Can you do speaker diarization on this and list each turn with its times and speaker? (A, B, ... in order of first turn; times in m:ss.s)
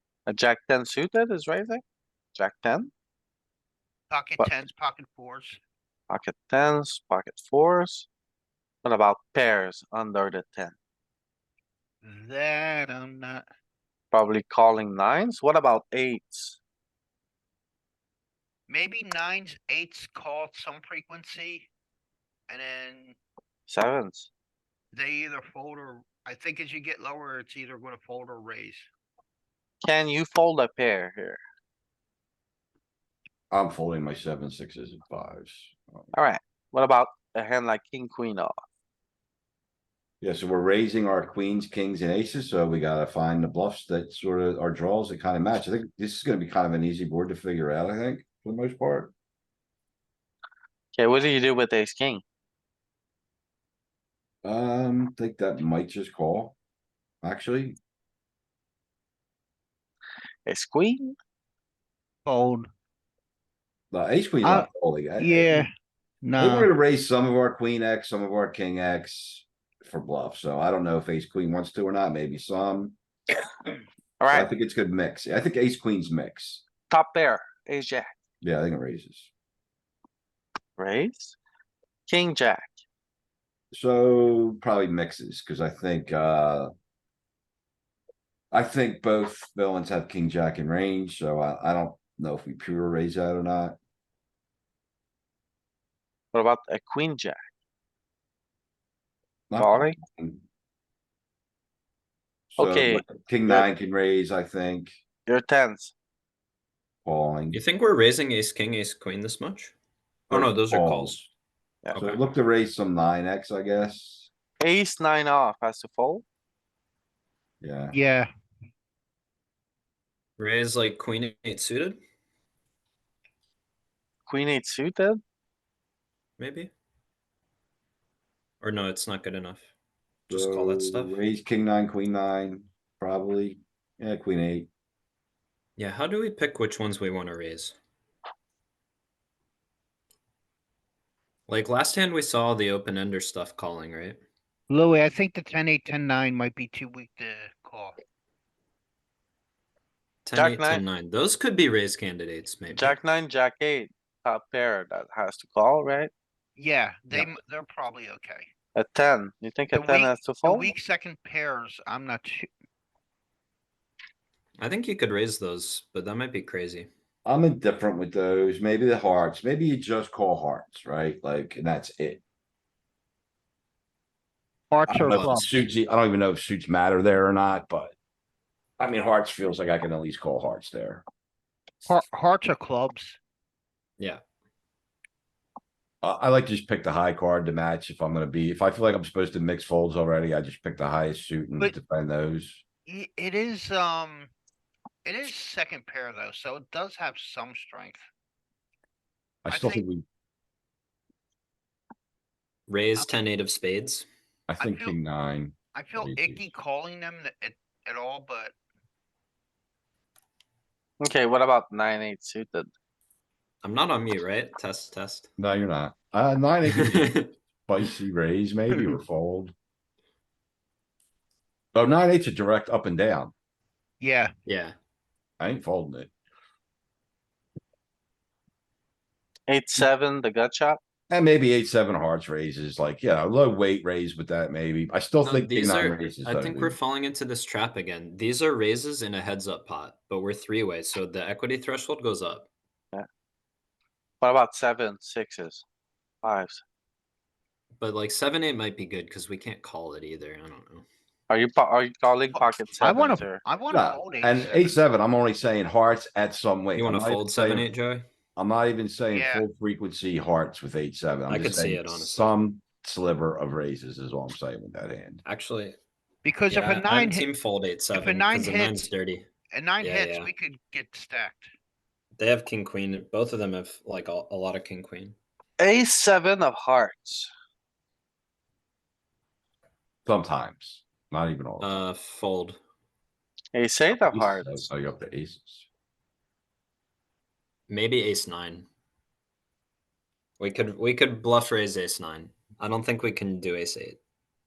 0:00.3-0:01.8 A
0:02.4-0:02.9 A
0:04.1-0:05.6 B
0:04.4-0:04.6 A
0:06.1-0:08.1 A
0:08.8-0:10.8 A
0:12.0-0:13.4 B
0:14.1-0:16.6 A
0:18.7-0:21.7 B
0:22.5-0:23.2 B
0:23.7-0:24.3 A
0:24.9-0:28.9 B
0:29.8-0:31.4 A
0:33.5-0:36.1 C
0:36.1-0:38.5 A
0:40.2-0:49.1 C
0:50.9-0:52.2 A
0:54.4-0:56.6 C
0:57.2-0:57.8 C
1:00.4-1:01.2 A
1:02.2-1:02.7 B
1:03.9-1:05.6 C
1:04.4-1:04.7 B
1:05.2-1:05.7 B
1:06.2-1:06.7 B
1:06.4-1:13.0 C
1:14.2-1:14.5 A
1:14.3-1:16.6 C
1:16.9-1:18.1 A
1:18.4-1:19.3 C
1:20.8-1:21.4 A
1:22.1-1:22.8 A
1:23.7-1:26.7 C
1:28.5-1:33.8 C
1:36.3-1:37.4 A
1:39.5-1:40.4 C
1:39.6-1:40.0 A
1:42.5-1:44.9 C
1:42.6-1:43.7 A
1:45.3-1:45.9 A
1:47.0-1:47.6 C
1:47.5-1:49.7 D
1:50.3-1:51.2 C
1:50.3-1:51.3 D
1:51.9-1:54.3 C
1:54.6-1:56.2 A
1:57.6-1:58.0 C
1:57.9-1:58.3 B
2:00.4-2:02.0 D
2:04.3-2:05.2 A
2:06.4-2:06.7 D
2:08.6-2:09.6 D
2:10.3-2:11.2 D
2:10.3-2:14.7 C
2:15.8-2:17.8 D
2:21.5-2:24.2 D
2:24.7-2:28.0 B
2:30.2-2:33.0 D
2:30.3-2:30.8 A
2:32.7-2:36.1 A
2:36.6-2:38.5 B
2:38.8-2:40.7 A
2:39.7-2:42.5 B
2:44.6-2:46.9 D
2:47.2-2:52.2 C
2:54.7-2:55.5 B
2:54.8-2:57.9 C
2:54.9-2:55.7 D
2:58.8-3:01.0 C
3:01.8-3:03.2 B
3:06.0-3:12.6 C
3:12.8-3:14.3 B
3:15.0-3:18.1 B
3:19.4-3:20.0 C
3:19.5-3:19.8 B
3:22.7-3:24.1 D
3:24.5-3:26.4 C
3:24.6-3:25.0 B
3:25.7-3:28.5 B
3:31.0-3:32.7 A
3:33.6-3:35.3 D
3:35.4-3:39.5 C
3:36.7-3:37.3 D
3:41.7-3:43.3 C
3:44.0-3:44.3 B
3:44.5-3:44.8 D
3:45.4-3:46.1 C
3:49.5-3:50.8 A
3:51.1-3:56.8 C
3:55.2-4:02.5 D
4:04.2-4:05.6 A
4:06.2-4:06.6 A
4:07.8-4:10.9 D
4:11.3-4:13.4 A
4:12.3-4:14.8 B
4:13.7-4:17.7 C
4:16.7-4:18.0 D
4:18.4-4:25.2 C
4:19.1-4:19.4 B
4:21.3-4:22.3 D
4:25.2-4:25.8 D
4:26.2-4:27.3 B
4:26.5-4:29.3 D
4:27.9-4:28.8 B
4:29.5-4:31.5 B
4:29.8-4:30.3 D
4:32.2-4:35.2 D
4:35.6-4:37.3 A
4:40.0-4:41.8 C
4:41.6-4:42.6 D
4:43.5-4:44.7 A
4:43.9-4:45.6 C
4:47.7-4:48.7 D
4:50.4-4:54.0 D